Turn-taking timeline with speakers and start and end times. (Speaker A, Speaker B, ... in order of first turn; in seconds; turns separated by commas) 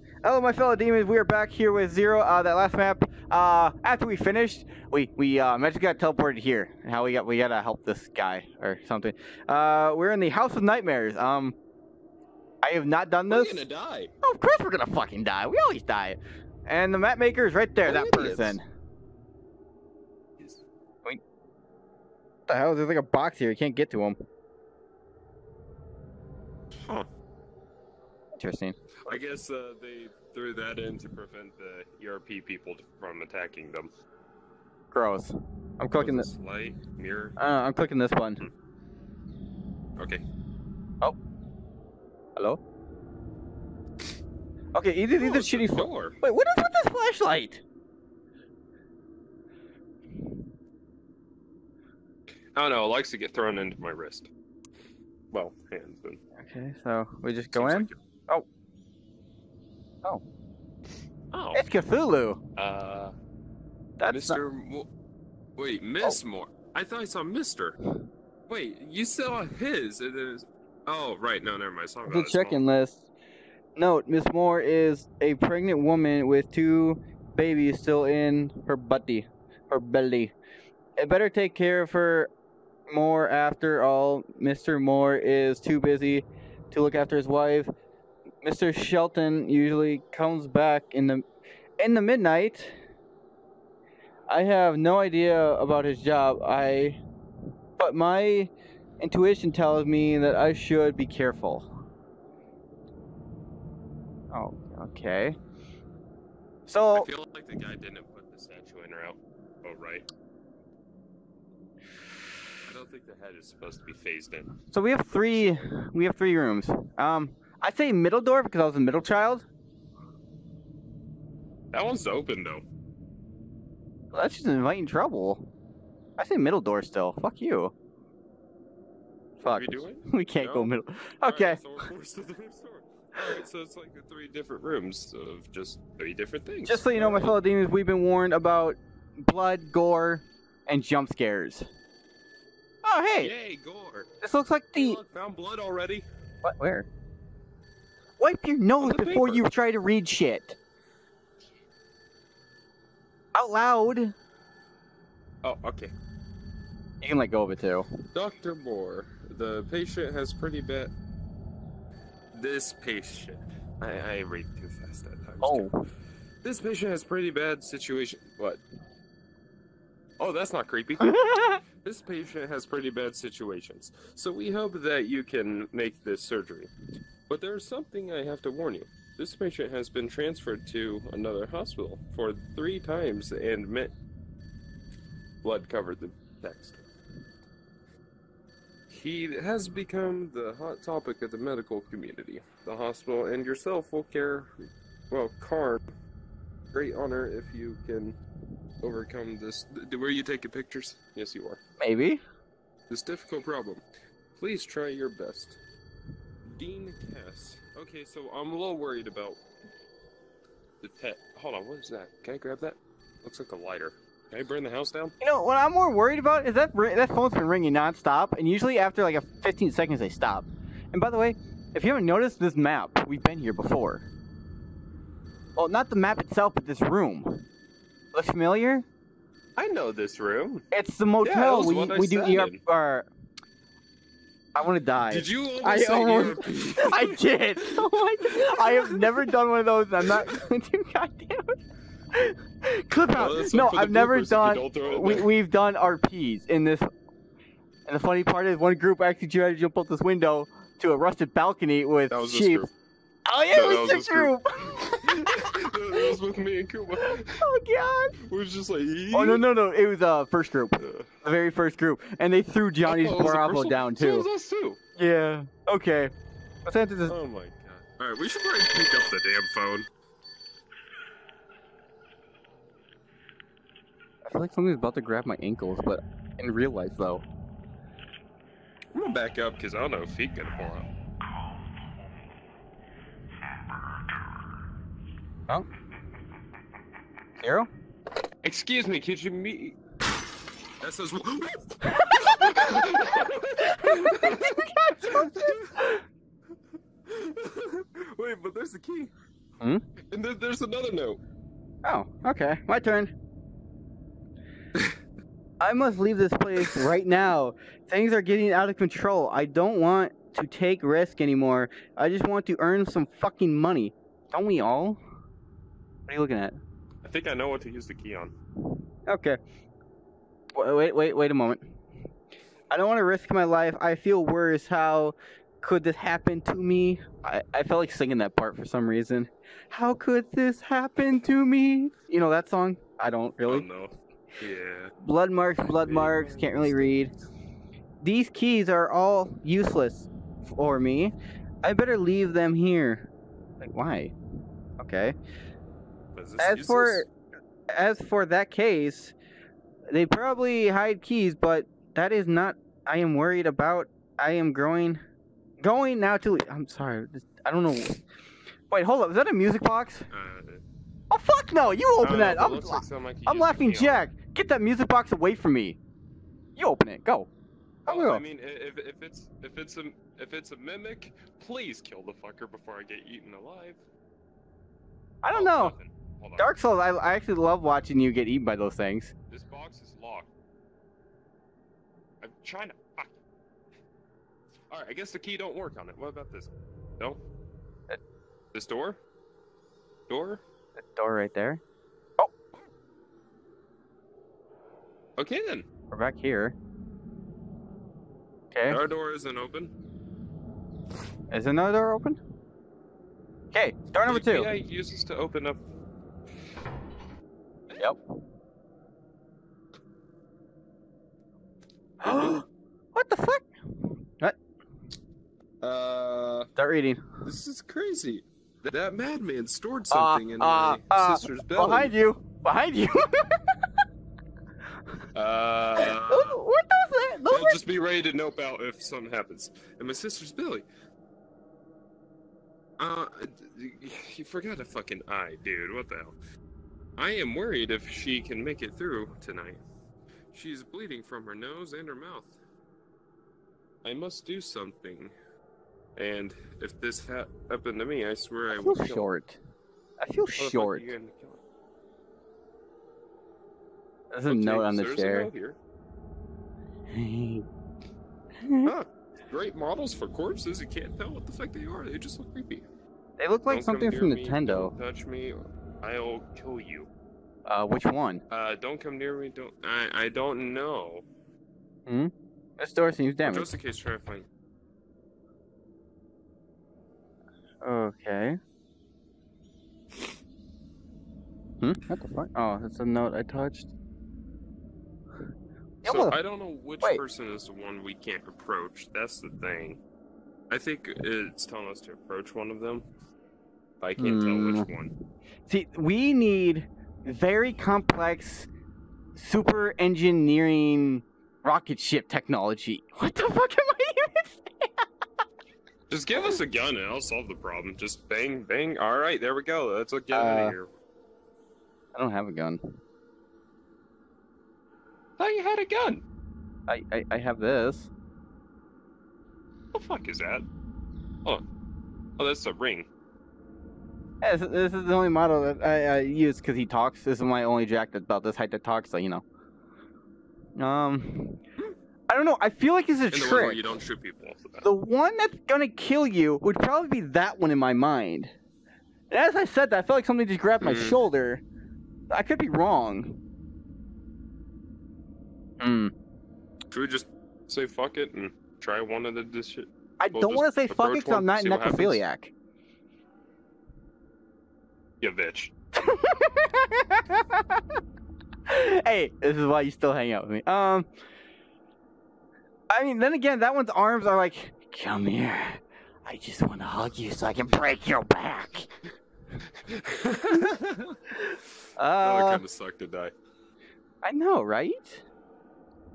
Speaker A: 0.2-11.5, Speaker A: 12.6-13.6, Speaker B: 13.3-14.1, Speaker A: 14.2-18.6, Speaker B: 17.8-18.6, Speaker B: 20.4-20.6, Speaker A: 22.5-24.2, Speaker B: 26.7-27.1, Speaker A: 28.3-29.2, Speaker B: 29.1-33.9, Speaker A: 34.9-36.3, Speaker B: 36.0-37.4, Speaker A: 37.4-38.5, Speaker B: 40.0-40.2, Speaker A: 44.7-47.6, Speaker B: 45.2-46.2, Speaker B: 52.5-54.3, Speaker B: 55.3-56.2, Speaker A: 56.4-58.5, Speaker B: 57.5-58.0, Speaker B: 61.3-61.6, Speaker A: 61.5-62.4, Speaker B: 62.5-63.1, Speaker A: 64.0-64.4, Speaker B: 64.1-64.9, Speaker B: 65.6-67.8, Speaker B: 68.5-72.6, Speaker A: 72.1-73.1, Speaker A: 73.8-80.3, Speaker A: 81.0-82.3, Speaker A: 82.9-87.7, Speaker A: 88.4-91.2, Speaker A: 91.8-92.8, Speaker A: 94.3-97.0, Speaker A: 97.8-101.7, Speaker A: 104.3-105.4, Speaker A: 106.7-107.0, Speaker B: 106.9-110.0, Speaker B: 112.6-114.5, Speaker A: 114.7-119.5, Speaker B: 115.2-115.7, Speaker B: 121.7-122.6, Speaker A: 124.1-125.5, Speaker A: 126.2-127.7, Speaker A: 129.4-131.8, Speaker B: 129.4-130.7, Speaker B: 131.2-137.3, Speaker A: 136.7-141.7, Speaker A: 142.8-143.3, Speaker B: 143.2-144.1, Speaker A: 144.2-145.0, Speaker B: 144.7-146.1, Speaker A: 146.4-146.9, Speaker A: 148.2-150.6, Speaker B: 148.8-149.4, Speaker A: 153.3-154.1, Speaker B: 155.4-155.9, Speaker A: 157.0-157.9, Speaker B: 158.1-160.9, Speaker B: 162.3-165.7, Speaker A: 165.4-165.8, Speaker B: 166.4-168.6, Speaker B: 170.2-171.2, Speaker A: 171.0-171.6, Speaker B: 171.8-176.7, Speaker B: 177.3-183.9, Speaker B: 185.4-186.8, Speaker B: 188.9-195.8, Speaker B: 196.7-198.2, Speaker B: 198.8-201.6, Speaker A: 201.8-202.2, Speaker B: 202.9-203.8, Speaker B: 204.3-205.6, Speaker B: 206.4-209.4, Speaker B: 210.8-215.1, Speaker A: 215.2-224.1, Speaker A: 225.6-227.4, Speaker A: 228.1-228.8, Speaker B: 229.6-230.6, Speaker A: 230.7-233.1, Speaker B: 231.2-232.6, Speaker A: 234.5-241.5, Speaker B: 235.1-239.3, Speaker B: 240.0-240.3, Speaker A: 242.1-246.9, Speaker B: 243.1-245.3, Speaker A: 247.9-252.7, Speaker B: 252.1-252.7, Speaker A: 253.3-256.1, Speaker B: 253.5-257.4, Speaker A: 257.0-258.2, Speaker B: 258.2-259.4, Speaker A: 259.1-264.3, Speaker B: 260.8-261.1, Speaker B: 262.9-264.8, Speaker A: 265.0-266.1, Speaker A: 266.6-267.1, Speaker B: 267.1-269.9, Speaker A: 274.2-277.2, Speaker B: 278.9-280.9, Speaker A: 287.4-287.7, Speaker B: 288.4-289.8, Speaker B: 290.8-295.8, Speaker A: 291.8-296.0, Speaker B: 297.0-299.1, Speaker B: 300.1-301.2, Speaker A: 301.8-303.1, Speaker B: 304.7-305.0, Speaker A: 305.6-315.0, Speaker A: 316.1-316.6, Speaker B: 317.0-318.3, Speaker A: 319.1-319.4, Speaker A: 320.5-321.6, Speaker A: 322.7-333.6, Speaker B: 333.4-334.9, Speaker A: 335.0-337.1, Speaker B: 335.6-337.0, Speaker A: 338.0-343.1, Speaker A: 343.6-344.1, Speaker A: 344.8-345.1, Speaker B: 346.1-347.0, Speaker A: 346.4-347.1, Speaker A: 347.7-349.1, Speaker A: 349.9-355.0, Speaker A: 355.6-358.0, Speaker A: 358.7-360.1, Speaker B: 360.1-360.6, Speaker A: 361.1-365.8, Speaker B: 362.0-364.1, Speaker A: 366.6-367.3, Speaker A: 367.9-368.2, Speaker B: 367.9-373.8, Speaker A: 375.2-375.8, Speaker B: 375.3-376.5, Speaker A: 376.4-379.1, Speaker B: 379.3-380.3, Speaker B: 382.2-383.2, Speaker B: 384.7-387.2, Speaker B: 388.5-389.0, Speaker B: 390.1-390.4, Speaker A: 390.8-391.6, Speaker B: 395.2-395.7, Speaker A: 395.9-396.6, Speaker A: 398.5-398.8, Speaker B: 398.7-399.7, Speaker A: 401.3-402.2, Speaker A: 403.5-404.5, Speaker B: 404.0-405.6, Speaker A: 412.0-414.4, Speaker B: 412.0-412.4, Speaker B: 415.6-416.5, Speaker A: 416.6-417.2, Speaker B: 417.2-421.9, Speaker A: 419.9-423.6, Speaker B: 425.1-426.4, Speaker A: 425.8-427.6, Speaker B: 427.3-430.6, Speaker B: 432.8-436.2, Speaker B: 437.0-439.6, Speaker B: 440.3-442.4, Speaker B: 443.8-445.1, Speaker B: 445.9-449.1, Speaker A: 448.5-449.4, Speaker A: 450.0-450.9, Speaker B: 450.4-451.4, Speaker A: 454.1-455.3, Speaker B: 454.3-455.6, Speaker A: 456.9-457.4, Speaker A: 458.4-458.7, Speaker B: 458.6-462.6, Speaker A: 463.2-464.7, Speaker B: 463.5-466.9, Speaker A: 467.5-468.2, Speaker B: 468.3-471.1, Speaker A: 471.9-473.5, Speaker B: 473.2-474.3, Speaker A: 477.6-478.4, Speaker A: 481.6-483.7, Speaker A: 485.8-486.1, Speaker B: 485.8-489.8, Speaker B: 490.5-492.9, Speaker B: 493.8-494.9, Speaker A: 494.0-494.7, Speaker A: 495.5-498.5, Speaker A: 499.1-504.7, Speaker B: 505.9-510.7, Speaker A: 510.1-510.6, Speaker A: 511.9-512.8, Speaker B: 515.2-516.0, Speaker A: 516.7-517.9, Speaker B: 519.7-520.5, Speaker B: 522.2-522.9, Speaker A: 524.2-529.2, Speaker A: 530.5-531.4, Speaker A: 532.1-533.6, Speaker B: 533.1-534.7, Speaker A: 534.6-538.3, Speaker A: 539.1-541.4, Speaker B: 540.6-541.0, Speaker A: 542.1-543.2, Speaker A: 545.6-545.9, Speaker B: 546.7-552.0, Speaker A: 550.0-552.3, Speaker B: 555.0-555.5, Speaker A: 555.8-557.6, Speaker A: 558.5-560.9, Speaker A: 562.7-568.7, Speaker B: 569.6-571.2, Speaker A: 571.8-572.4, Speaker B: 572.0-573.1, Speaker A: 574.0-575.0